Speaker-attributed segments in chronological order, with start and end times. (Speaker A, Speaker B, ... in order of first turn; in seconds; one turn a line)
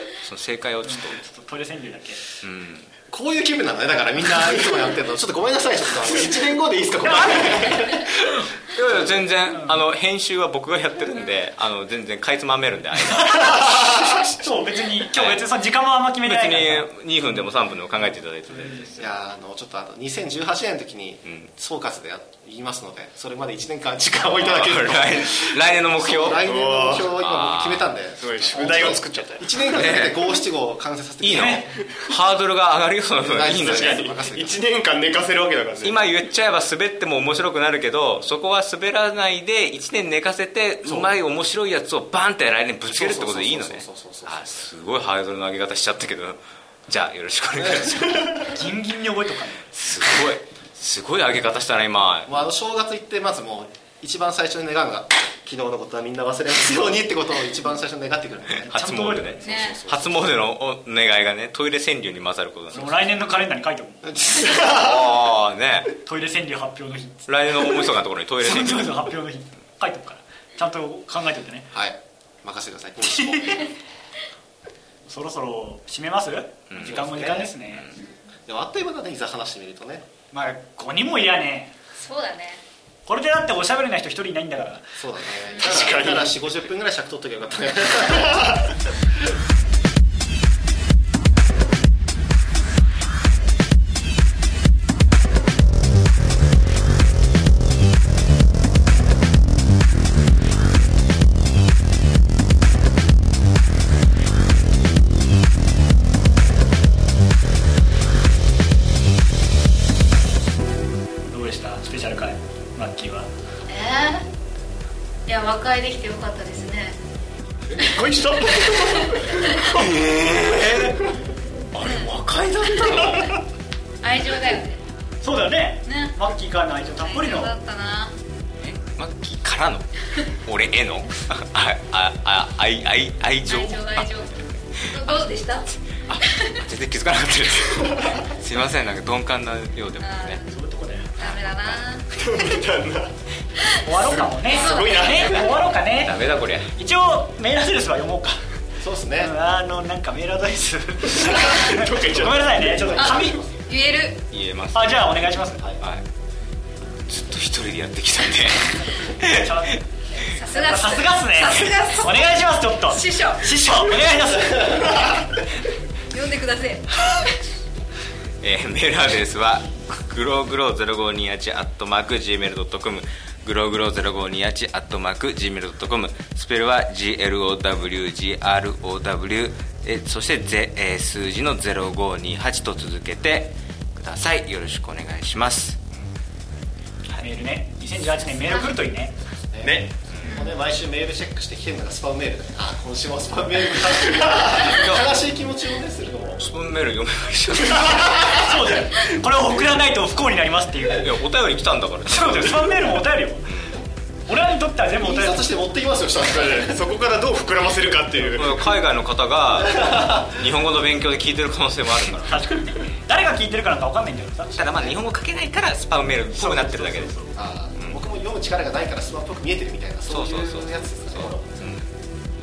Speaker A: 0.2-1.2
Speaker B: 0.8-2.2
Speaker A: 2.4-2.9
Speaker C: 3.1-8.2
Speaker B: 7.1-8.0
Speaker A: 8.3-14.4
Speaker B: 9.5-9.8
Speaker B: 13.1-16.9
Speaker A: 15.1-15.4
Speaker A: 16.2-19.1
Speaker B: 18.6-18.9
Speaker C: 19.0-31.8
Speaker A: 21.2-21.5
Speaker A: 24.2-26.4
Speaker D: 26.4-27.1
Speaker A: 27.2-28.0
Speaker D: 28.2-29.6
Speaker A: 29.7-30.2
Speaker A: 31.2-34.1
Speaker B: 31.3-31.7
Speaker C: 33.2-34.6
Speaker D: 33.5-36.1
Speaker A: 35.8-48.6
Speaker C: 40.9-41.1
Speaker C: 42.9-44.5
Speaker B: 48.4-49.7
Speaker A: 49.7-52.4
Speaker C: 52.3-58.7
Speaker A: 58.5-63.0
Speaker B: 58.7-59.5
Speaker E: 59.4-59.8
Speaker C: 59.4-60.4
Speaker B: 62.7-64.8
Speaker C: 64.0-64.9
Speaker A: 64.5-65.9
Speaker B: 66.0-71.7
Speaker A: 67.3-69.1
Speaker C: 71.7-73.7
Speaker B: 75.1-77.9
Speaker A: 76.7-77.0
Speaker C: 76.8-77.5
Speaker C: 78.5-80.1
Speaker B: 80.3-81.8
Speaker E: 82.0-82.6
Speaker B: 83.1-84.9
Speaker C: 85.0-88.6
Speaker E: 85.5-85.8
Speaker D: 85.7-86.3
Speaker B: 111.3-113.3
Speaker E: 113.7-114.3
Speaker E: 115.3-117.0
Speaker D: 117.8-120.0
Speaker E: 119.0-119.8
Speaker A: 119.8-121.1
Speaker A: 121.7-123.4
Speaker E: 121.8-122.2
Speaker E: 122.8-123.4
Speaker E: 124.0-124.8
Speaker B: 125.2-127.6
Speaker E: 125.9-126.1
Speaker E: 127.0-128.1
Speaker A: 128.6-134.1
Speaker E: 133.4-136.6
Speaker A: 134.8-140.4
Speaker E: 140.0-140.6
Speaker B: 140.5-141.2
Speaker A: 141.2-142.0
Speaker E: 141.2-142.1
Speaker D: 142.1-143.1
Speaker B: 143.8-148.4
Speaker D: 144.1-145.6
Speaker E: 144.4-145.7
Speaker A: 146.0-146.7
Speaker C: 148.8-149.3
Speaker B: 149.2-153.4
Speaker D: 151.2-152.9
Speaker C: 152.5-153.6
Speaker E: 152.9-154.2
Speaker A: 154.3-155.2
Speaker B: 154.7-155.7
Speaker A: 157.1-159.7
Speaker B: 159.0-165.1
Speaker E: 160.3-162.4
Speaker E: 162.9-163.6
Speaker E: 164.9-165.3
Speaker E: 166.1-167.4
Speaker A: 168.4-185.8
Speaker B: 187.2-189.1
Speaker C: 189.5-196.4
Speaker D: 189.6-189.9
Speaker E: 190.3-190.6
Speaker A: 194.6-195.1
Speaker A: 196.4-198.4
Speaker B: 197.9-201.1
Speaker A: 201.0-202.9
Speaker B: 202.1-203.5
Speaker A: 203.5-203.8
Speaker B: 204.3-205.5
Speaker C: 205.0-206.8
Speaker D: 206.3-208.6
Speaker A: 208.3-212.4
Speaker C: 209.6-210.5
Speaker B: 212.2-214.5
Speaker C: 214.5-215.0
Speaker A: 214.6-217.1
Speaker B: 216.3-217.4
Speaker C: 217.3-221.7
Speaker A: 217.8-218.0
Speaker A: 220.1-221.9